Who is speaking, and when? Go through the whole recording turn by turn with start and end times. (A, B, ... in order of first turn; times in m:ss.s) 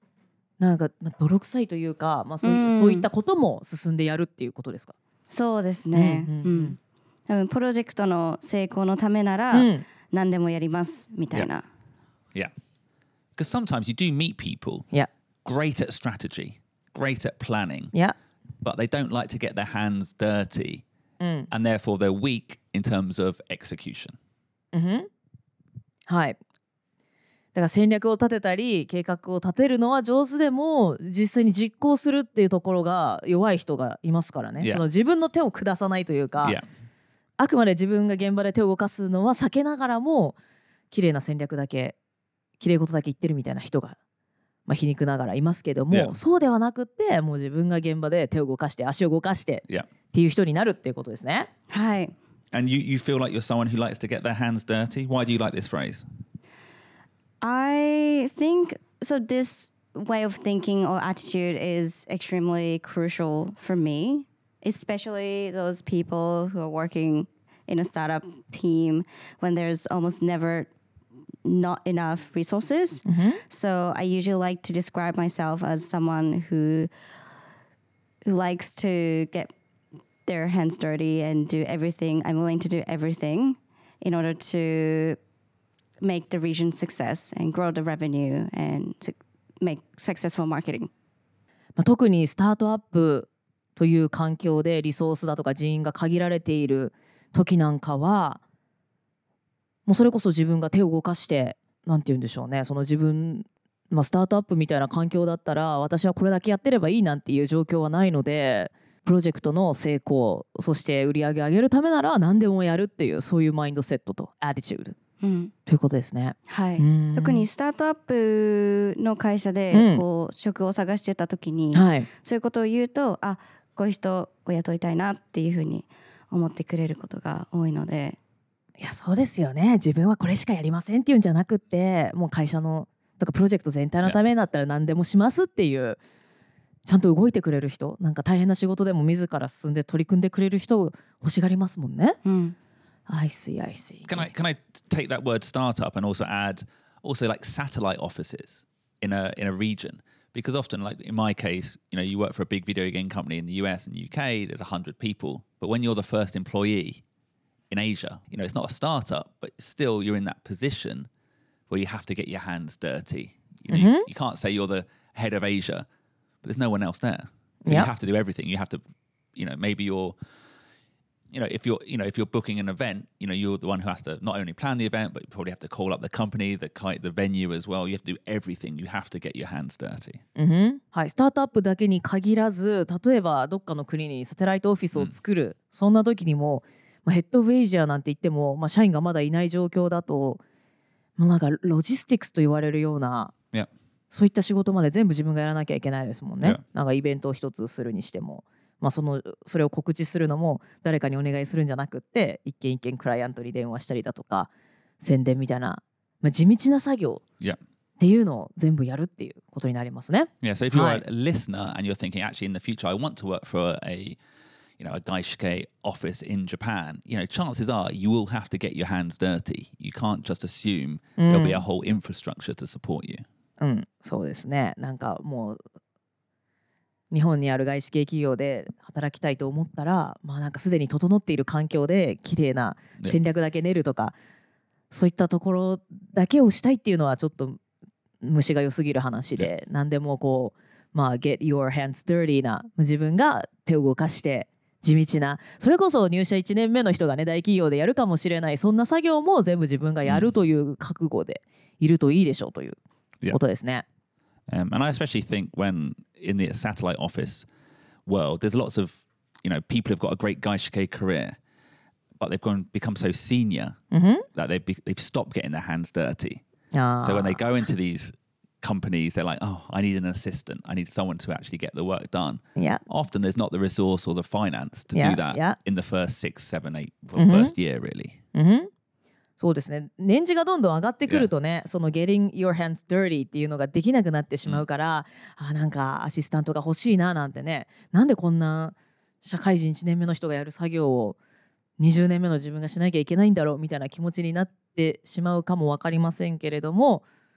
0:00.6-0:04.9 A
0:02.4-0:03.0 B
0:05.3-0:06.8 B
0:05.9-0:06.7 A
0:07.3-0:11.6 B
0:09.5-0:09.8 A
0:13.3-0:14.9 C
0:15.4-0:17.9 C
0:18.6-0:20.8 C
0:21.2-0:21.5 A
0:21.5-0:24.2 C
0:24.7-0:25.1 A
0:26.1-0:26.4 A
0:27.5-0:36.6 A
0:37.4-0:40.4 A
0:40.9-0:42.0 A
0:42.6-0:44.0 A
0:44.7-0:51.5 A
0:51.7-0:52.1 B
0:52.5-0:56.0 C
0:57.4-1:10.7 B
1:11.4-1:16.9 B
1:13.0-1:13.4 A
1:18.2-1:19.5 B
1:20.2-1:25.2 B
1:26.0-1:30.9 B
1:31.8-1:38.4 A
1:39.8-1:54.9 A
1:55.2-1:55.5 B
1:55.7-1:57.4 A
1:56.5-2:08.2 B
1:59.7-2:00.0 A
2:01.7-2:02.1 A
2:08.8-2:16.0 A
2:16.8-2:22.2 A
2:22.2-2:22.5 B
2:23.1-2:24.3 A
2:24.1-2:37.0 C
2:37.7-2:41.1 C
2:41.7-2:45.9 C
2:43.7-2:44.1 A
2:46.4-2:48.8 C
2:49.4-2:50.2 C
2:51.3-3:00.2 C
3:00.4-3:10.4 A
3:11.2-3:13.3 A
3:14.1-3:27.2 A
3:28.0-3:31.0 A
3:30.4-3:34.2 C
3:34.8-3:43.2 C
3:41.2-3:41.6 A
3:43.6-3:45.6 A
3:47.1-3:54.1 A
3:54.9-3:57.6 A
3:58.2-4:12.8 A
4:10.0-4:10.3 C
4:13.3-4:13.8 A
4:14.5-4:17.5 C
4:18.0-4:21.4 C
4:22.2-4:23.8 C
4:23.9-4:24.2 A
4:24.3-4:26.4 C
4:26.7-4:27.4 A
4:27.0-4:38.2 C
4:32.6-4:32.8 A
4:34.9-4:35.6 A
4:37.2-4:37.5 A
4:38.3-4:38.7 A
4:39.4-4:51.2 A
4:51.8-4:57.0 A